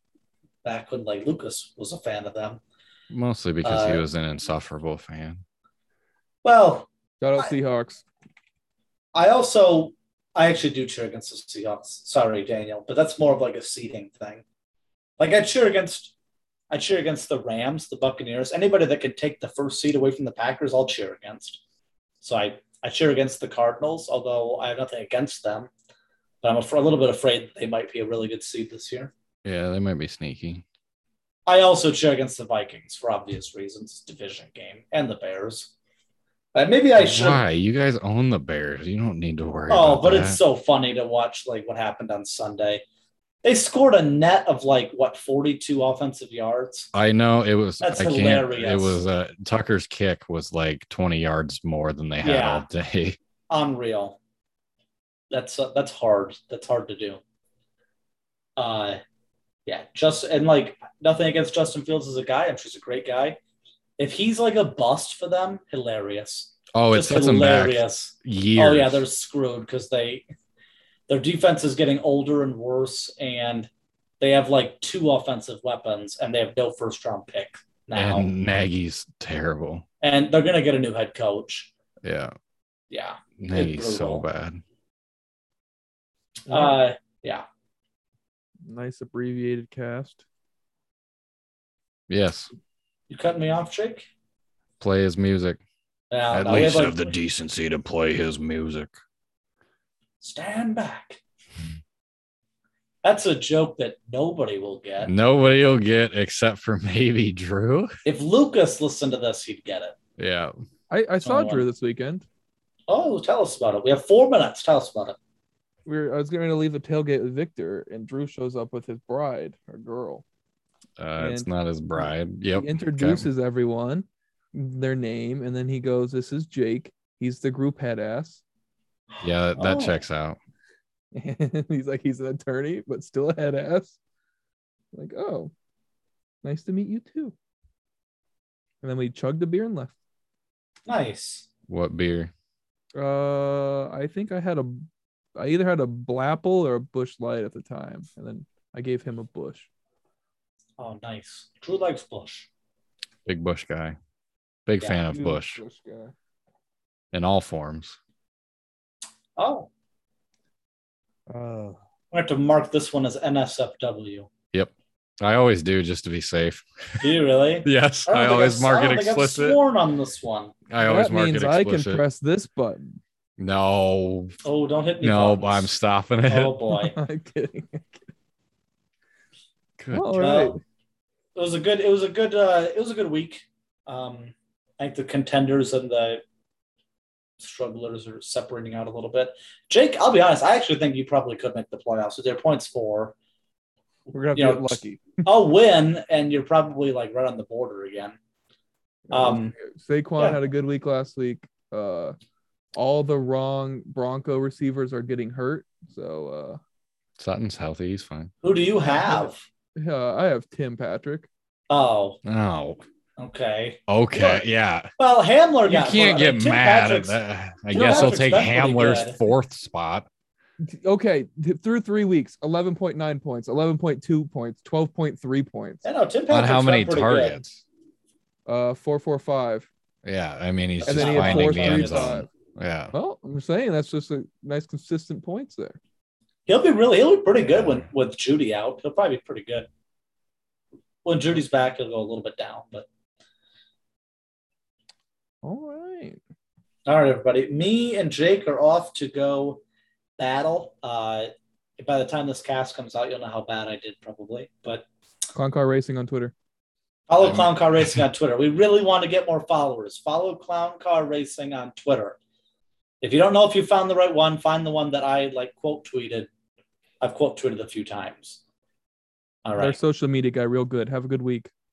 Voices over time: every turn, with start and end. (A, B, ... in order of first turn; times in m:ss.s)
0:00.6-0:02.6 A
0:03.1-0:05.4 B
0:03.6-0:04.0 A
0:06.4-0:07.5 A
0:07.2-0:08.0 C
0:09.1-0:14.4 A
0:15.2-0:16.1 A
0:16.7-0:21.6 A
0:22.2-0:25.7 A
0:26.4-0:29.1 A
0:29.4-0:30.6 B
0:31.5-0:35.7 A
0:36.5-0:37.4 A
0:37.0-0:40.4 B
0:39.7-0:42.8 A
0:43.4-0:46.9 A
0:46.9-0:53.2 B
0:47.8-0:49.0 A
0:52.2-0:52.6 A
0:53.5-0:54.2 A
0:55.3-0:57.2 A
0:58.6-0:59.0 A
0:59.6-1:03.4 A
1:04.0-1:10.2 A
1:06.7-1:09.0 B
1:11.1-1:13.7 A
1:14.2-1:18.3 A
1:17.9-1:19.8 B
1:20.0-1:21.7 A
1:22.0-1:22.3 B
1:22.9-1:24.2 A
1:23.4-1:24.6 B
1:26.4-1:27.4 A
1:26.5-1:26.8 C
1:28.6-1:30.2 C
1:32.1-1:32.5 B
1:33.1-1:34.0 A
1:34.8-1:35.6 B
1:36.1-1:37.1 A
1:36.3-1:38.9 B
1:40.2-1:41.2 A
1:43.0-1:45.1 A
1:45.0-1:48.0 B
1:48.0-1:49.9 A
1:50.2-1:50.5 B
1:50.9-1:52.2 C
1:51.2-1:51.6 A
1:52.9-1:55.2 A
1:55.8-2:00.2 C
2:01.0-2:03.3 B
2:01.2-2:08.4 C
2:09.1-2:10.0 A
2:09.2-2:10.4 B
2:11.1-2:14.0 C
2:14.9-2:15.5 C
2:16.4-2:17.3 C
2:18.8-2:19.9 C
2:20.9-2:21.5 A
2:21.7-2:22.3 B
2:22.9-2:29.7 C
2:30.8-2:32.5 A
2:33.2-2:34.0 B
2:34.6-2:35.6 B
2:35.1-2:36.1 C
2:37.1-2:38.0 B
2:39.4-2:39.7 A
2:41.3-2:41.8 C
2:42.1-2:44.3 A
2:44.5-2:47.1 B
2:47.0-2:50.5 A
2:47.6-2:49.6 B
2:50.7-2:52.0 B
2:50.8-2:53.0 C
2:53.4-2:54.4 B
2:54.4-2:55.7 A
2:55.0-2:56.6 B
2:56.3-2:57.0 A
2:56.7-2:58.0 C
2:59.8-3:00.1 B
2:59.9-3:00.6 C
3:00.1-3:00.6 A
3:01.3-3:06.2 A
3:07.4-3:13.1 A
3:14.1-3:15.2 C
3:14.3-3:18.2 A
3:19.1-3:22.2 C
3:19.1-3:19.5 A
3:22.7-3:26.6 C
3:27.2-3:28.3 B
3:28.4-3:29.4 A
3:29.0-3:31.3 C
3:31.7-3:32.2 A
3:32.2-3:32.8 B
3:33.2-3:34.4 A
3:33.9-3:34.9 B
3:35.0-3:37.2 A
3:35.6-3:40.1 B
3:37.7-3:39.2 A
3:40.6-3:45.8 C
3:45.8-3:47.4 A
3:46.3-3:47.6 B
3:48.4-3:49.7 C
3:50.0-3:52.9 B
3:50.8-3:52.2 A
3:50.9-3:52.3 C
3:52.9-3:55.8 C
3:56.5-3:59.7 A
3:57.5-3:57.8 B
4:01.0-4:02.9 A
4:05.4-4:06.2 C
4:06.8-4:09.6 A
4:10.2-4:14.8 A
4:15.3-4:16.3 C
4:17.1-4:22.2 A
4:17.2-4:18.0 B
4:23.0-4:26.3 A
4:27.0-4:28.4 A
4:29.4-4:29.8 A
4:29.6-4:31.5 C